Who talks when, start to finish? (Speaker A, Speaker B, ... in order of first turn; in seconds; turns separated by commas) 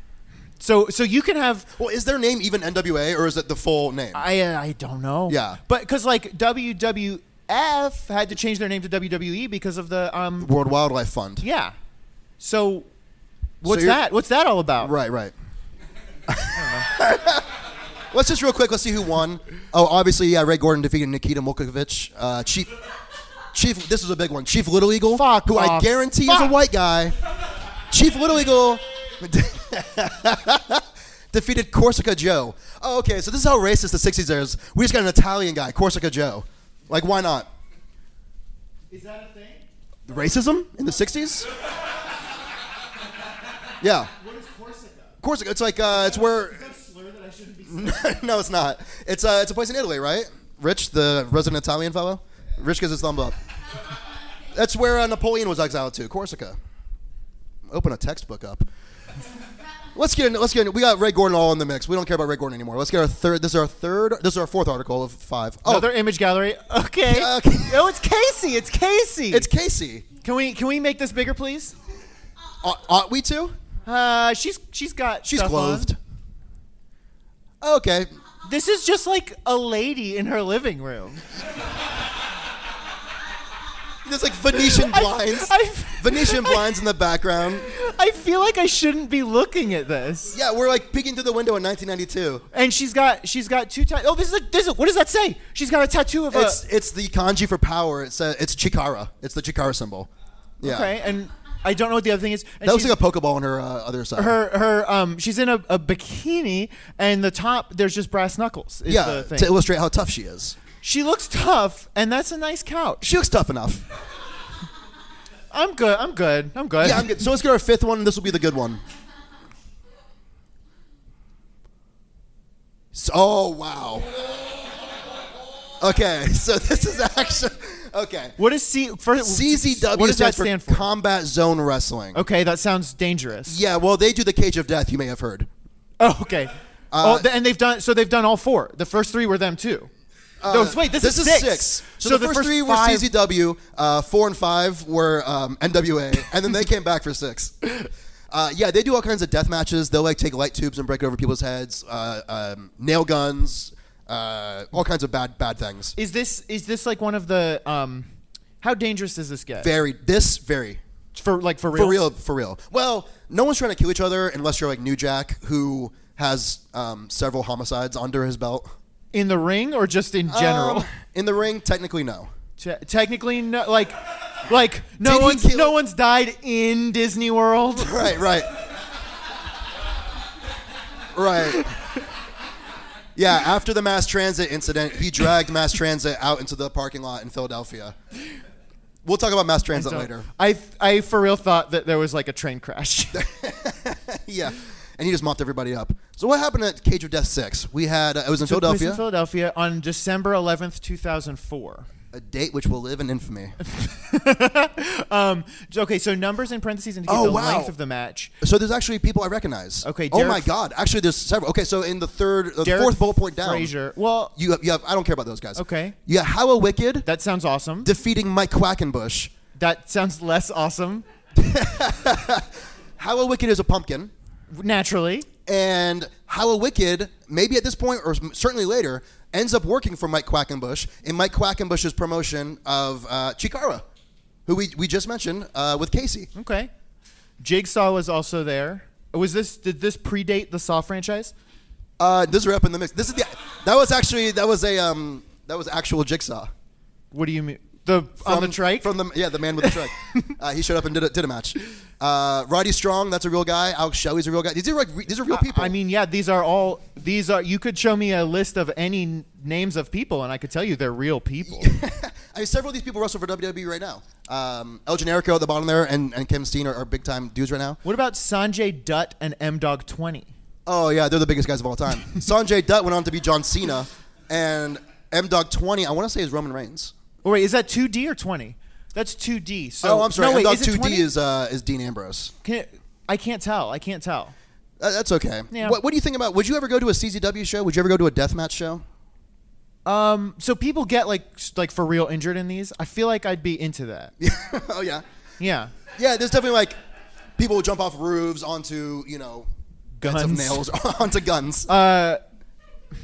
Speaker A: 0.6-1.7, Speaker B: 1.8-4.2, Speaker A: 4.1-10.5, Speaker B: 5.3-5.6, Speaker B: 10.4-11.4, Speaker A: 11.4-11.7, Speaker A: 12.4-12.9, Speaker A: 13.6-14.9, Speaker B: 13.7-14.0, Speaker B: 14.8-15.3, Speaker B: 16.3-17.5, Speaker A: 16.5-16.9, Speaker B: 18.1-22.7, Speaker B: 23.5-27.2, Speaker A: 25.1-26.5, Speaker B: 27.9-37.5, Speaker A: 38.9-39.6, Speaker B: 40.1-41.5, Speaker B: 43.8-44.1, Speaker A: 44.1-45.2, Speaker B: 45.2-46.6, Speaker A: 45.9-48.1, Speaker B: 47.7-53.4, Speaker B: 54.5-56.6, Speaker B: 57.7-58.7, Speaker B: 59.9-65.9, Speaker A: 65.7-69.5, Speaker B: 67.1-67.9, Speaker B: 69.3-70.1, Speaker A: 70.2-71.8, Speaker B: 72.6-73.6, Speaker A: 73.8-75.9, Speaker B: 75.2-76.0, Speaker B: 77.6-78.1, Speaker A: 78.5-81.2, Speaker B: 84.0-87.7, Speaker A: 84.6-86.7, Speaker A: 87.6-90.4, Speaker B: 90.3-92.5, Speaker A: 92.5-96.6, Speaker B: 96.3-100.1, Speaker B: 100.6-101.0, Speaker A: 100.6-103.0, Speaker B: 102.6-104.4, Speaker A: 104.2-109.5, Speaker B: 108.9-110.6, Speaker A: 110.8-113.1, Speaker B: 113.0-113.8, Speaker A: 115.5-117.2, Speaker B: 116.8-118.8, Speaker B: 122.9-124.1, Speaker B: 125.8-128.4, Speaker A: 128.4-130.9, Speaker B: 129.2-132.2, Speaker A: 132.1-133.6, Speaker B: 133.5-135.5, Speaker A: 136.0-139.9, Speaker B: 136.9-137.3, Speaker B: 140.4-155.9, Speaker A: 140.5-143.1, Speaker A: 156.0-158.1, Speaker A: 158.6-159.7, Speaker B: 159.6-160.8, Speaker A: 161.2-162.0, Speaker B: 161.7-168.7, Speaker A: 169.1-170.9, Speaker B: 170.3-172.3, Speaker A: 172.6-178.1, Speaker B: 175.0-175.8, Speaker B: 177.7-178.5, Speaker B: 181.1-181.8, Speaker B: 183.2-187.9, Speaker B: 189.0-190.3, Speaker A: 189.8-193.3, Speaker B: 193.1-199.0, Speaker A: 198.4-201.9, Speaker B: 202.1-203.6, Speaker A: 203.6-208.3, Speaker B: 207.1-207.7, Speaker B: 208.4-213.7, Speaker A: 209.8-210.5, Speaker A: 212.6-214.3, Speaker B: 214.4-217.1, Speaker A: 215.6-216.0, Speaker A: 217.1-217.9, Speaker B: 217.8-219.3, Speaker A: 219.6-221.0, Speaker B: 221.3-224.1, Speaker A: 224.5-225.3, Speaker B: 225.5-233.8, Speaker B: 234.5-236.3, Speaker A: 236.3-236.7, Speaker A: 237.4-241.3, Speaker B: 242.0-246.5, Speaker A: 247.1-248.9, Speaker B: 248.2-255.7, Speaker A: 249.6-250.3, Speaker A: 255.3-261.7, Speaker B: 261.4-267.8, Speaker A: 267.8-270.3, Speaker B: 270.7-276.9, Speaker A: 277.2-281.1, Speaker B: 279.8-282.3, Speaker A: 282.4-284.4, Speaker B: 284.8-288.8, Speaker A: 285.5-285.8, Speaker A: 289.9-294.1, Speaker B: 294.2-295.0, Speaker A: 295.4-295.7, Speaker B: 295.9-296.8, Speaker B: 297.4-299.5, Speaker A: 300.0-300.7, Speaker B: 300.0-301.7, Speaker A: 301.7-302.2